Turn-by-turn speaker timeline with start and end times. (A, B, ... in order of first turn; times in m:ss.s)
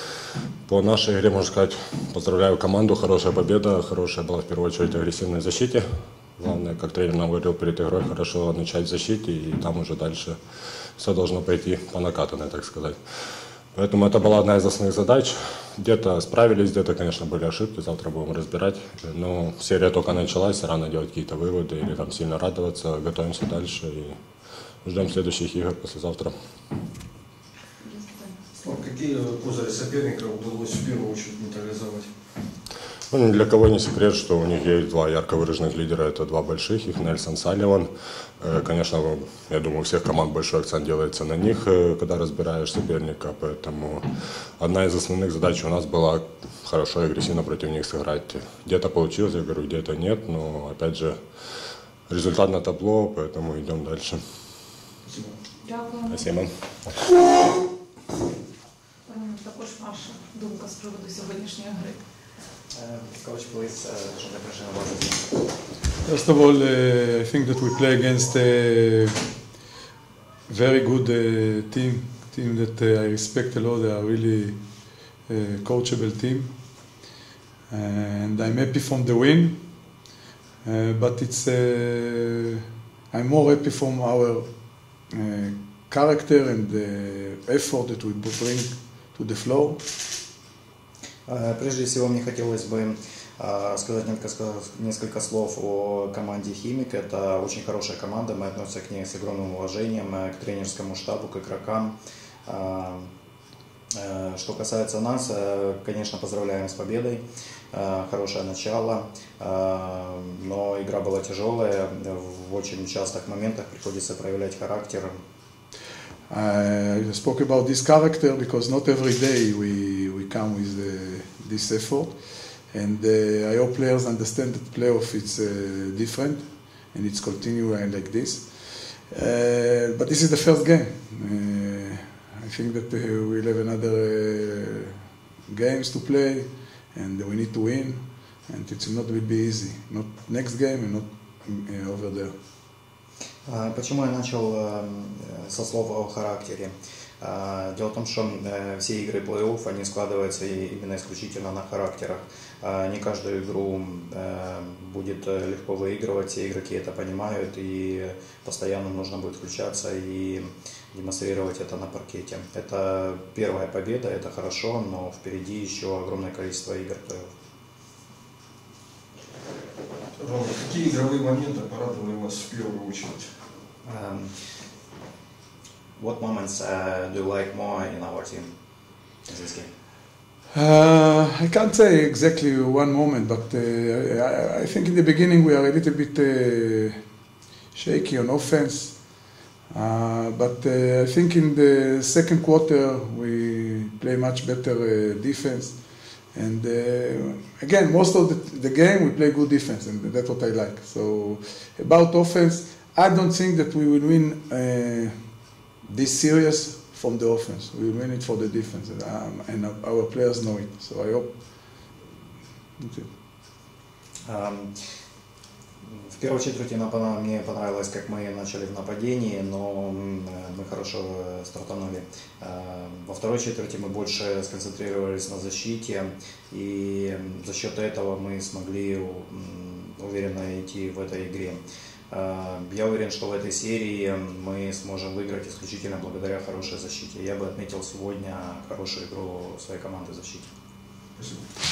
0:00.7-0:05.8 A
0:06.4-0:10.4 A
0:11.0-0:13.0 A
0:13.7-0:24.2 A
0:24.8-0:26.3 A
0:27.8-0:28.4 B
0:28.6-0:32.1 C
0:33.1-0:37.9 A
0:38.4-0:44.0 A
0:44.6-0:51.2 A
0:52.1-0:54.2 A
0:55.0-0:55.3 C
0:55.6-0:56.4 B
0:56.1-0:56.5 A
0:59.1-1:02.0 B
1:02.7-1:05.3 D
1:06.0-1:09.1 E
1:10.5-1:14.6 E
1:15.3-1:16.5 E
1:17.7-1:19.6 E
1:20.6-1:24.4 E
1:25.1-1:29.8 E
1:31.3-1:42.0 D
1:42.5-1:43.1 D
1:43.9-1:55.2 D
1:56.3-2:02.1 E
2:02.7-2:22.3 E
2:23.5-2:47.3 D
2:50.2-2:53.3 C
2:53.8-2:54.3 D
2:56.0-2:58.5 D
2:59.2-2:59.7 D
3:00.5-3:07.0 E
3:07.7-3:09.0 E
3:09.7-3:15.8 E
3:16.3-3:25.1 E
3:25.8-3:31.3 E
3:32.8-3:33.0 E
3:34.3-3:34.7 D
3:35.9-4:00.5 D
4:01.2-4:01.4 C